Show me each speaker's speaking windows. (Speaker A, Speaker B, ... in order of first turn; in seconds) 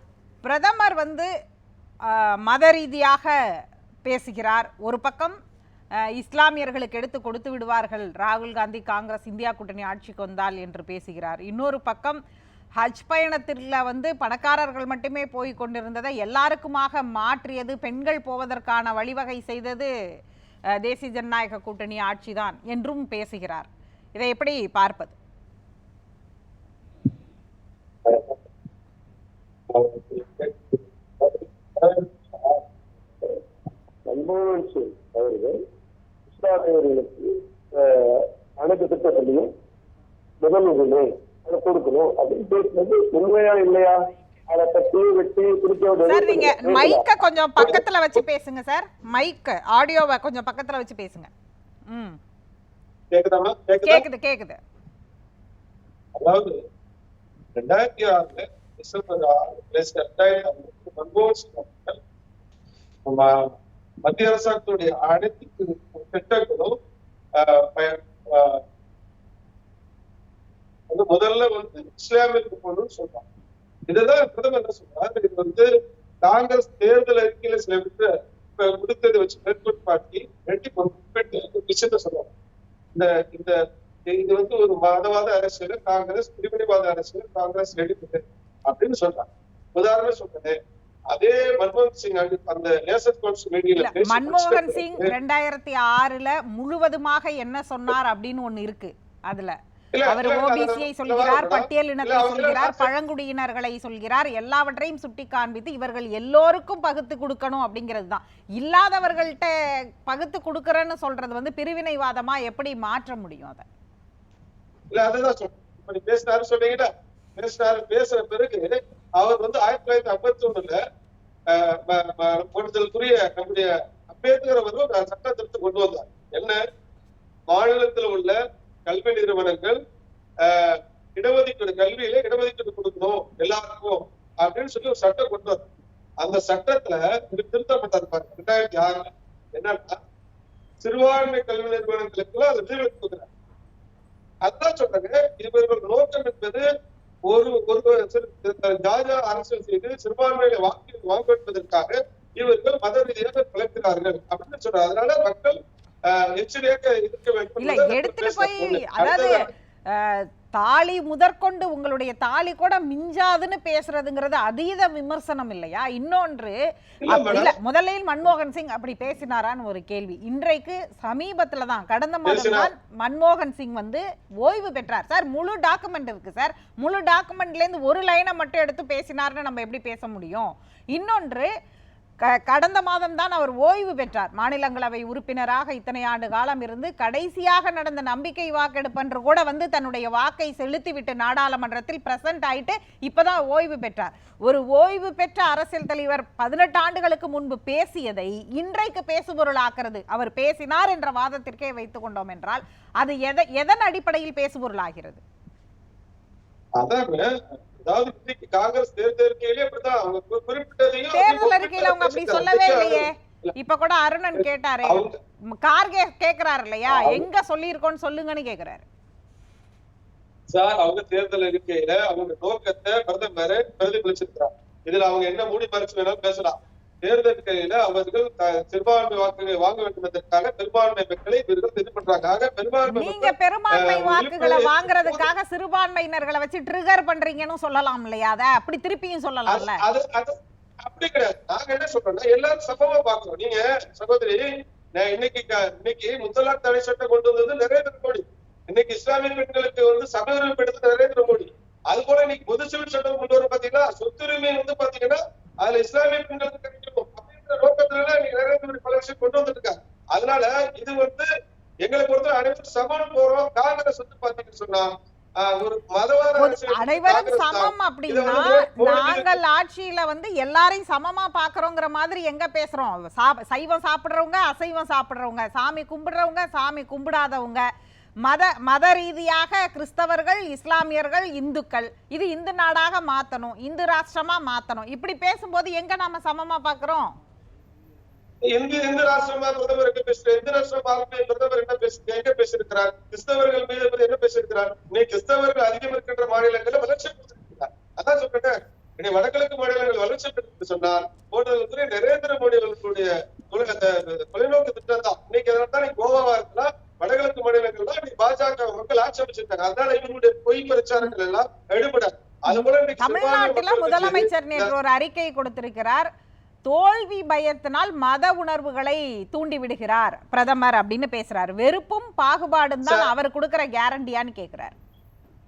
Speaker A: 0.4-1.3, 2.0-3.3, 4.0-5.3, 6.1-12.2, 12.8-19.9, 20.8-25.1, 46.0-51.3, 51.9-52.2, 53.9-54.6, 93.8-99.5, 100.1-109.5, 110.0-113.6, 157.6-166.6, 167.1-181.5, 182.3-205.2, 211.1-215.0, 215.6-218.8, 232.9-239.8, 266.4-277.6, 278.2-287.1, 312.5-316.1, 316.6-324.7
Speaker B: 28.1-28.4, 29.7-32.6, 47.6-48.2, 53.1-54.0, 56.2-56.5, 57.5-62.0, 63.1-63.5, 64.0-66.7, 67.4-68.6, 70.9-73.2, 73.9-75.7, 76.2-82.3, 82.9-90.5, 91.1-95.1, 99.9-102.9, 114.9-120.8, 121.5-126.6, 127.5-129.8, 130.4-135.7, 136.2-140.0, 140.8-143.3, 144.4-146.7, 147.3-155.6, 156.1-159.4, 167.0-167.6, 172.2-172.7, 206.8-213.5, 214.3-215.2, 216.9-217.3, 220.5-235.2, 239.5-244.4, 244.9-261.2, 261.8-264.9, 265.4-269.4, 288.5-314.7, 322.8-323.1
Speaker C: 34.0-35.6, 36.3-39.5, 40.4-43.9, 44.5-47.1